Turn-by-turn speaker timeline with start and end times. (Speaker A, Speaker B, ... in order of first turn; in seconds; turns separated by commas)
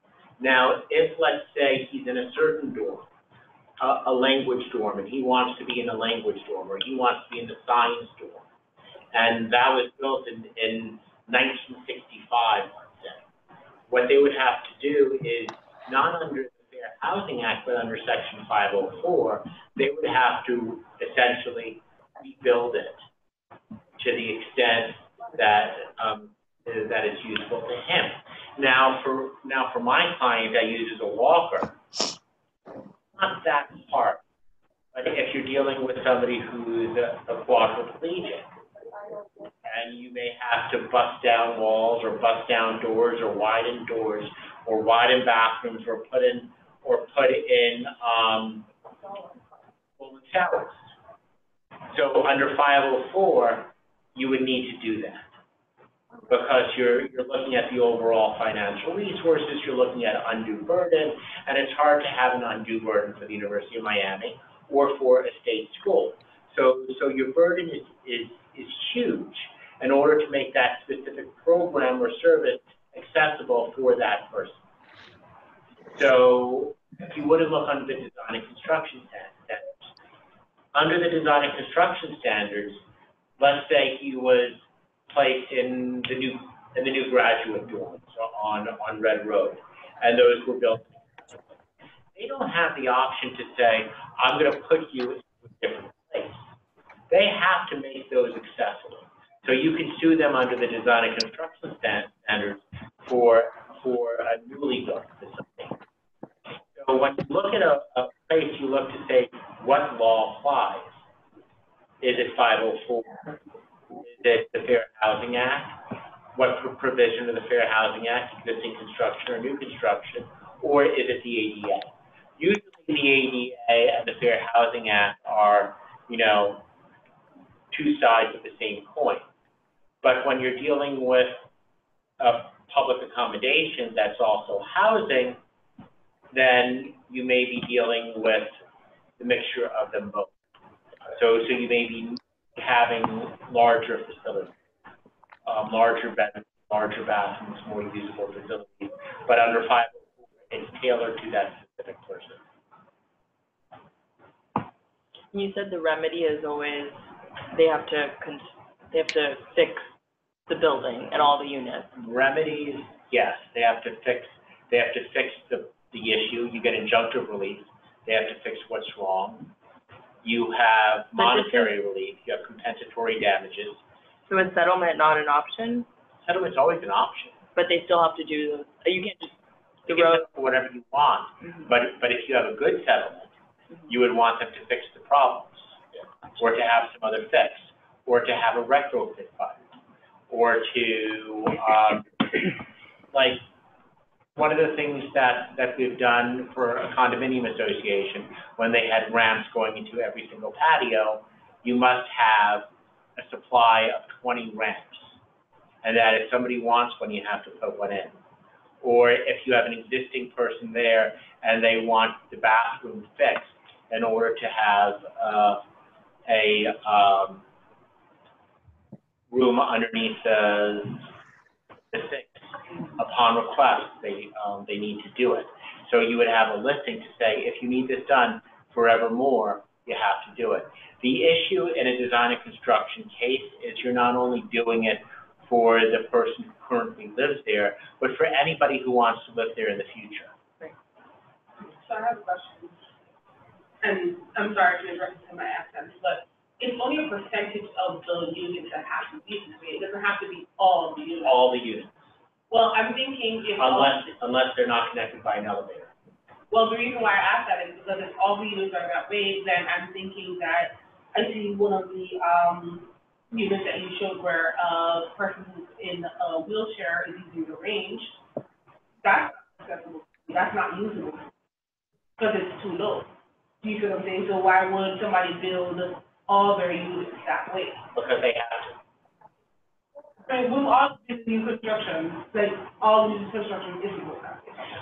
Speaker A: 0.4-3.1, Speaker A: 3.8-8.5, Speaker A: 9.1-13.2, Speaker A: 13.9-23.0, Speaker A: 24.0-31.8, Speaker A: 33.1-34.2, Speaker A: 34.9-38.5, Speaker A: 39.6-48.7, Speaker A: 50.0-50.8, Speaker A: 51.9-55.3, Speaker A: 56.3-74.6, Speaker A: 75.9-79.9, Speaker A: 80.7-82.8, Speaker A: 83.4-91.5, Speaker A: 92.2-96.4, Speaker A: 97.1-105.8, Speaker A: 106.8-111.0, Speaker A: 112.0-113.2, Speaker A: 114.0-115.8, Speaker A: 116.3-126.7, Speaker A: 127.7-129.3, Speaker A: 130.0-131.4, Speaker A: 132.2-135.4, Speaker A: 136.3-138.6, Speaker A: 139.2-140.3, Speaker A: 141.1-144.6, Speaker A: 145.4-152.4, Speaker B: 155.3-157.0, Speaker B: 157.5-159.9, Speaker B: 160.5-161.9, Speaker A: 161.9-169.5, Speaker A: 170.2-173.8, Speaker B: 171.2-171.7, Speaker B: 174.3-175.9, Speaker A: 176.2-177.4, Speaker B: 177.6-179.3, Speaker A: 179.9-183.3, Speaker B: 179.9-180.2, Speaker A: 183.9-185.7, Speaker A: 186.4-189.6, Speaker A: 190.3-192.2, Speaker A: 193.1-193.4, Speaker A: 194.4-205.2, Speaker A: 205.8-208.2, Speaker A: 208.8-215.6, Speaker A: 216.3-217.4, Speaker A: 219.3-221.1, Speaker A: 221.9-240.3, Speaker C: 241.6-242.7, Speaker C: 243.8-251.4, Speaker A: 251.2-251.9, Speaker C: 252.5-253.9, Speaker A: 253.6-255.9, Speaker C: 256.5-268.1, Speaker C: 269.0-271.3, Speaker C: 272.2-273.1, Speaker C: 273.6-277.8, Speaker A: 277.9-278.7, Speaker C: 280.2-284.6